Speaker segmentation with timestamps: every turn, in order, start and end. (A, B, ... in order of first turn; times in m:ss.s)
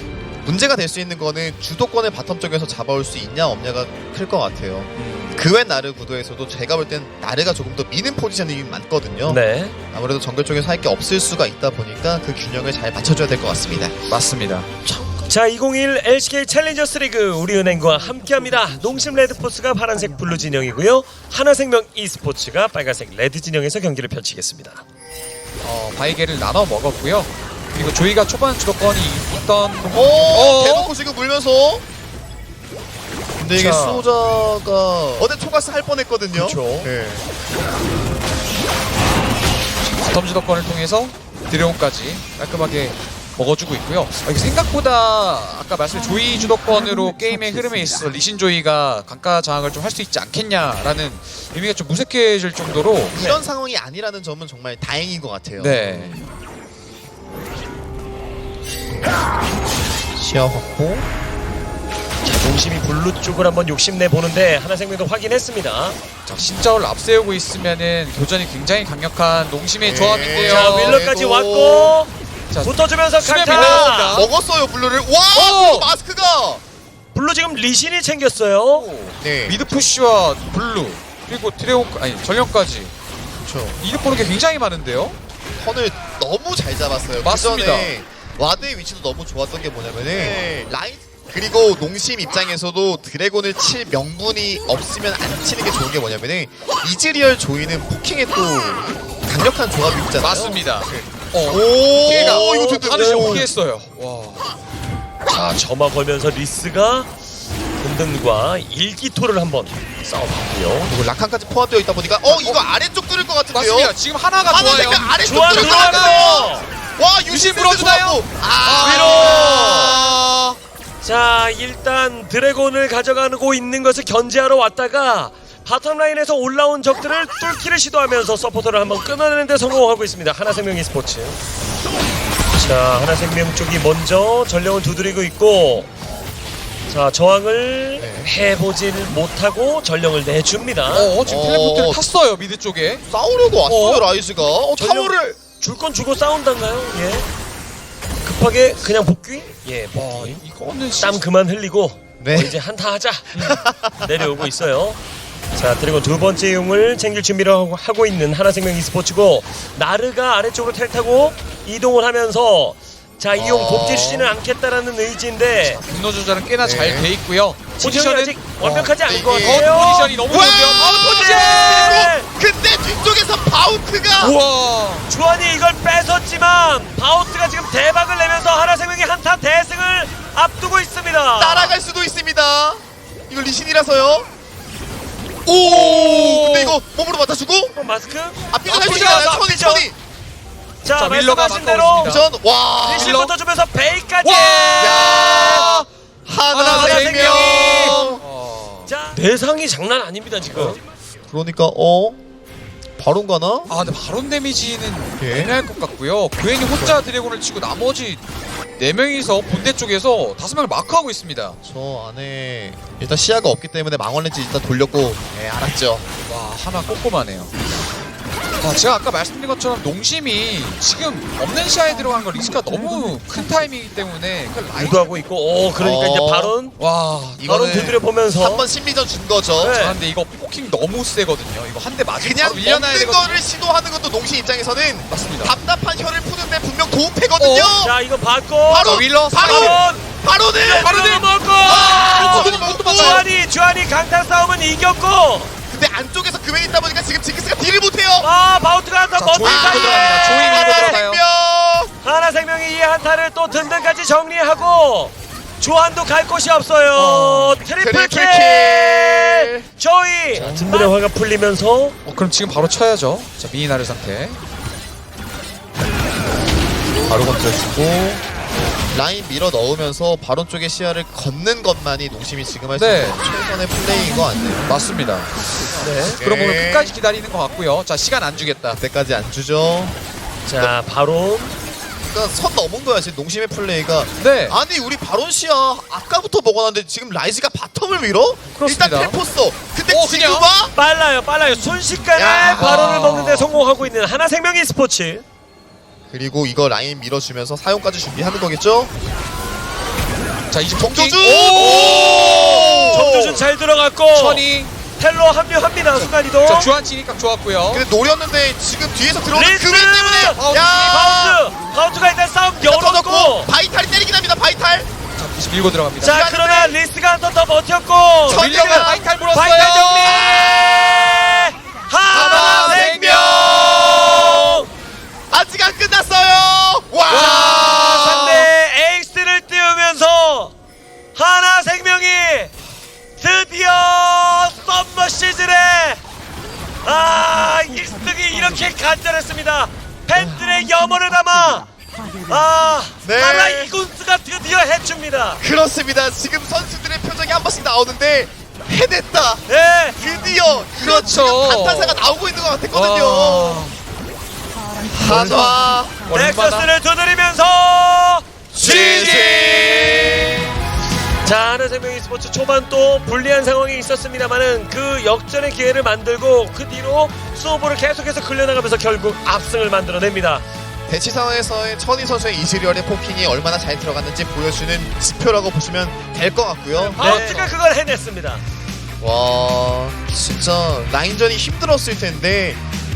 0:00.4-0:09.4 A
0:05.0-0:05.3 B
0:09.2-0:09.7 C
0:09.9-0:13.9 A
0:14.1-0:14.7 B
0:14.8-0:24.8 C
0:25.6-0:30.9 B
0:29.9-0:31.8 A
0:33.4-0:37.3 A
0:33.5-0:34.1 C
0:36.3-0:36.9 C
0:40.0-0:53.4 B
0:53.1-0:56.0 A
0:55.6-0:56.2 B
1:00.2-1:01.1 A
1:02.2-1:06.0 C
1:06.2-1:11.0 B
1:09.8-1:11.9 A
1:10.4-1:14.2 C
1:12.5-1:14.3 B
1:13.5-1:16.6 A
1:15.3-1:15.9 B
1:17.1-1:18.8 C
1:18.7-1:22.9 B
1:19.2-1:19.6 A
1:23.4-1:23.8 A
1:23.8-1:25.2 B
1:25.6-1:43.5 A
1:27.2-1:27.9 B
1:40.2-1:44.5 B
1:42.2-1:43.5 C
1:45.3-1:47.1 C
1:47.8-1:50.9 C
1:50.8-2:00.6 A
1:52.2-1:52.6 B
1:53.5-1:56.1 B
1:55.2-1:56.6 C
1:57.3-2:00.0 B
1:58.8-2:00.0 C
2:01.0-2:11.4 C
2:12.6-2:15.9 C
2:16.9-2:21.1 C
2:18.0-2:18.3 A
2:20.9-2:23.0 B
2:21.2-2:22.0 A
2:23.1-2:25.4 A
2:23.6-2:24.0 B
2:24.8-2:27.3 C
2:28.2-2:30.4 C
2:29.9-2:31.2 B
2:31.0-2:35.0 C
2:32.2-2:32.6 A
2:33.3-2:34.1 A
2:35.5-2:45.8 C
2:43.3-2:44.3 A
2:45.7-2:52.0 B
2:46.6-2:47.1 A
2:47.8-2:52.3 C
2:49.0-2:49.7 A
2:50.3-2:54.4 A
2:54.2-2:55.1 B
2:55.1-3:01.8 C
3:01.4-3:04.3 A
3:05.4-3:07.7 A
3:05.6-3:06.8 B
3:07.7-3:09.9 C
3:08.5-3:10.0 A
3:08.7-3:09.3 B
3:10.8-3:12.2 C
3:10.9-3:12.2 B
3:12.0-3:13.2 A
3:12.8-3:15.6 C
3:12.9-3:13.3 B
3:14.2-3:15.9 B
3:14.8-3:18.2 A
3:16.5-3:18.9 B
3:16.7-3:18.0 C
3:18.8-3:20.8 C
3:21.3-3:22.2 A
3:23.0-3:23.7 A
3:23.7-3:28.2 B
3:25.2-3:25.6 A
3:28.8-3:31.6 B
3:31.6-3:36.1 A
3:36.2-3:37.5 B
3:38.6-3:45.1 B
3:44.7-3:46.8 C
3:45.8-3:46.5 A
3:46.8-3:48.0 B
3:47.4-3:49.8 A
3:47.4-3:48.7 C
3:49.6-3:50.0 C
3:49.7-3:53.4 B
3:52.2-3:57.9 A
3:55.1-3:55.6 B
3:57.4-3:57.8 B
3:57.8-4:00.0 C
3:58.7-4:03.2 A
3:58.8-3:59.8 B
4:00.6-4:05.5 C
4:01.8-4:03.2 B
4:05.7-4:08.3 A
4:08.2-4:11.0 C
4:09.2-4:11.2 B
4:09.4-4:11.9 A
4:12.0-4:22.0 C
4:16.9-4:17.6 B
4:17.8-4:19.7 A
4:20.3-4:20.9 B
4:22.0-4:24.4 B
4:27.1-4:28.2 A
4:28.9-4:34.8 A
4:32.8-4:33.2 B
4:34.6-4:38.8 B
4:35.8-4:36.2 C
4:36.2-4:36.9 A
4:38.8-4:39.9 A
4:40.4-4:41.5 C
4:42.1-4:50.7 A
4:44.2-4:44.6 B
4:48.6-4:49.2 B
4:49.9-4:50.5 B
4:50.7-4:55.2 C
4:52.1-4:53.0 A
4:52.6-4:53.5 B
4:56.1-4:58.9 A
5:00.5-5:03.1 B
5:00.7-5:03.5 A
5:01.5-5:04.4 C
5:04.1-5:04.7 B
5:05.0-5:06.7 C
5:06.4-5:07.8 B
5:07.7-5:11.4 A
5:09.3-5:13.5 C
5:10.2-5:11.1 B
5:12.6-5:14.9 A
5:15.2-5:16.2 B
5:16.0-5:16.7 A
5:16.0-5:24.7 C
5:18.2-5:20.3 B
5:18.3-5:19.0 A
5:20.0-5:21.1 A
5:22.1-5:24.6 A
5:22.1-5:24.2 B
5:25.3-5:28.4 A
5:27.1-5:28.5 B
5:27.1-5:30.5 C
5:31.1-5:32.5 C
5:33.2-5:36.0 C
5:36.8-5:41.7 C
5:42.3-5:45.4 C
5:43.0-5:43.7 A
5:45.4-5:49.4 A
5:49.5-5:50.1 C
5:50.0-5:53.6 A
5:50.7-5:52.0 B
5:52.7-5:53.8 B
5:54.8-5:55.9 A
5:55.0-5:56.7 B
5:56.1-5:59.2 C
5:58.5-6:00.4 B
5:58.6-6:00.4 A
6:01.2-6:10.4 C
6:10.9-6:17.3 A
6:16.9-6:17.5 B
6:17.0-6:18.4 C
6:19.0-6:22.6 A